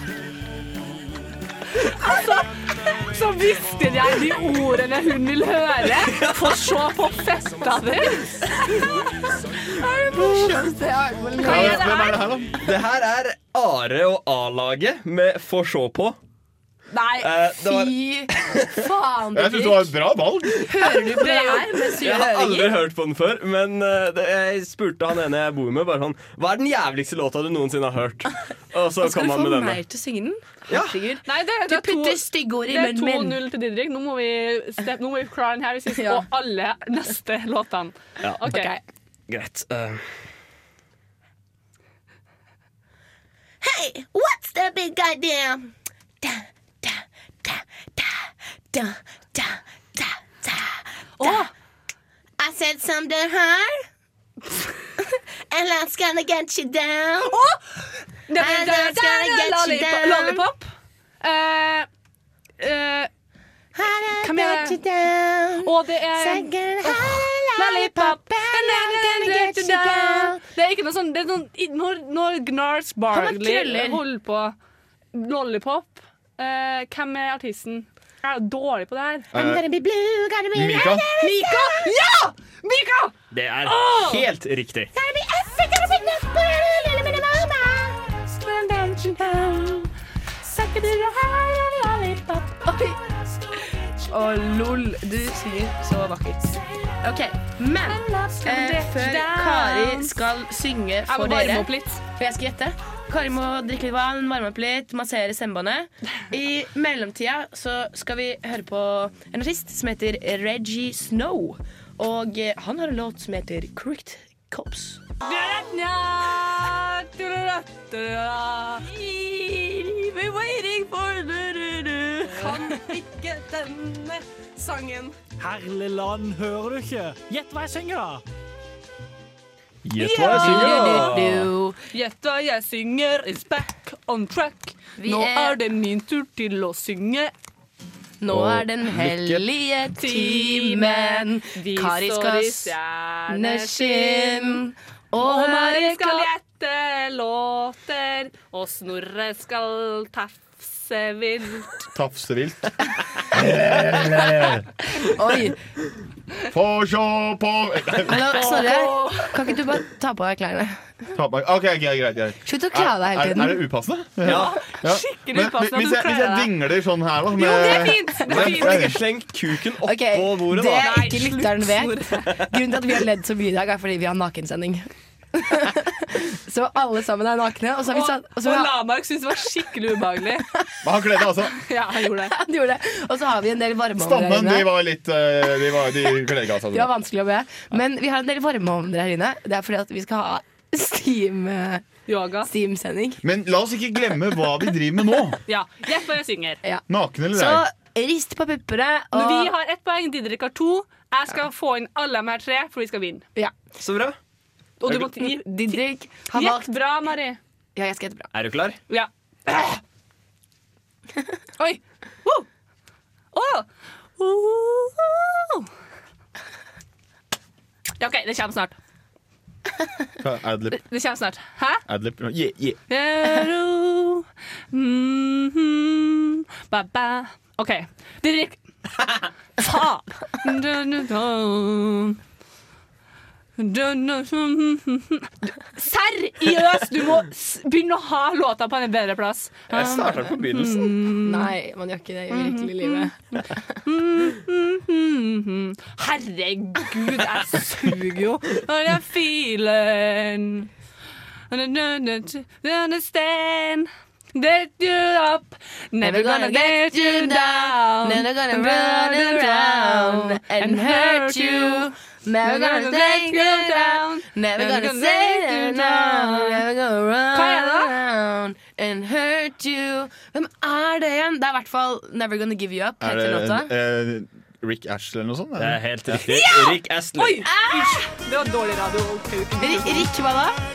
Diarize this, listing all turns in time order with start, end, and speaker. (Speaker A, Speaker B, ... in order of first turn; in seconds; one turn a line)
Speaker A: 1.8-8.5
Speaker B: 6.1-6.5
Speaker C: 9.8-12.2
Speaker A: 9.8-10.4
Speaker A: 11.4-12.2
Speaker D: 11.4-12.6
Speaker B: 12.6-16.2
Speaker A: 16.9-17.3
Speaker B: 17.2-18.7
Speaker C: 17.5-20.0
Speaker D: 19.3-20.7
Speaker C: 20.6-22.8
Speaker A: 21.2-21.9
Speaker B: 22.0-29.8
Speaker C: 29.0-33.4
Speaker B: 30.7-31.0
Speaker A: 31.2-38.7
Speaker C: 36.0-36.2
Speaker B: 38.2-38.5
Speaker C: 38.4-38.8
Speaker B: 39.3-40.1
Speaker C: 43.6-45.7
Speaker C: 46.2-51.5
Speaker A: 51.2-51.5
Speaker C: 52.4-53.9
Speaker C: 55.0-57.4
Speaker A: 57.3-60.7
Speaker C: 58.4-60.4
Speaker A: 61.2-61.9
Speaker A: 62.6-63.1
Speaker C: 63.8-70.4
Speaker A: 64.2-64.8
Speaker A: 65.6-74.5
Speaker C: 73.1-74.0
Speaker A: 75.1-79.3
Speaker D: 79.3-79.7
Speaker C: 79.3-81.9
Speaker D: 80.5-81.1
Speaker A: 81.2-84.3
Speaker B: 83.3-84.9
Speaker C: 85.0-89.9
Speaker A: 88.5-89.0
Speaker A: 90.5-92.3
Speaker C: 90.8-93.0
Speaker C: 94.0-115.0
Speaker A: 97.9-100.2
Speaker A: 101.1-102.0
Speaker A: 115.2-118.9
Speaker C: 118.9-125.1
Speaker A: 122.3-123.2
Speaker E: 125.4-128.2
Speaker B: 129.9-131.5
Speaker D: 130.0-130.8
Speaker A: 130.0-131.2
Speaker C: 130.3-131.8
Speaker A: 131.9-137.3
Speaker C: 135.0-135.6
Speaker C: 138.2-142.8
Speaker B: 138.3-139.4
Speaker A: 140.0-144.6
Speaker C: 143.3-146.3
Speaker A: 145.2-151.8
Speaker D: 151.9-152.7
Speaker D: 153.3-154.7
Speaker C: 155.1-155.6
Speaker D: 156.5-158.6
Speaker C: 158.1-160.9
Speaker A: 158.1-159.4
Speaker D: 161.2-169.1
Speaker C: 162.4-163.7
Speaker B: 164.2-164.6
Speaker A: 164.3-166.5
Speaker A: 167.3-168.9
Speaker B: 168.3-171.1
Speaker C: 169.8-178.8
Speaker A: 170.8-172.3
Speaker A: 177.9-180.4
Speaker D: 180.8-181.6
Speaker A: 181.6-182.3
Speaker C: 182.2-184.7
Speaker D: 184.0-186.9
Speaker C: 186.7-191.8
Speaker A: 192.1-192.5
Speaker C: 192.4-193.2
Speaker D: 193.2-195.4
Speaker A: 195.5-196.6
Speaker C: 196.6-199.5
Speaker D: 196.9-197.6
Speaker A: 199.1-203.3
Speaker B: 203.8-204.2
Speaker A: 204.8-207.4
Speaker C: 204.9-206.7
Speaker C: 207.8-208.3
Speaker B: 208.3-208.8
Speaker A: 208.9-209.8
Speaker A: 211.6-212.5
Speaker A: 213.3-215.7
Speaker A: 218.0-218.8
Speaker D: 220.2-220.9
Speaker A: 220.7-221.8
Speaker D: 221.9-222.8
Speaker A: 222.9-228.6
Speaker A: 229.6-232.2
Speaker A: 233.6-241.5
Speaker B: 239.7-241.0
Speaker C: 239.8-240.2
Speaker C: 241.2-243.7
Speaker A: 242.3-243.1
Speaker A: 243.8-250.7
Speaker A: 251.5-261.9
Speaker C: 256.0-273.7
Speaker A: 262.4-266.6
Speaker A: 267.3-267.9
Speaker D: 273.0-276.3
Speaker B: 275.6-277.5
Speaker A: 276.2-280.1
Speaker C: 277.5-278.0
Speaker C: 279.6-280.6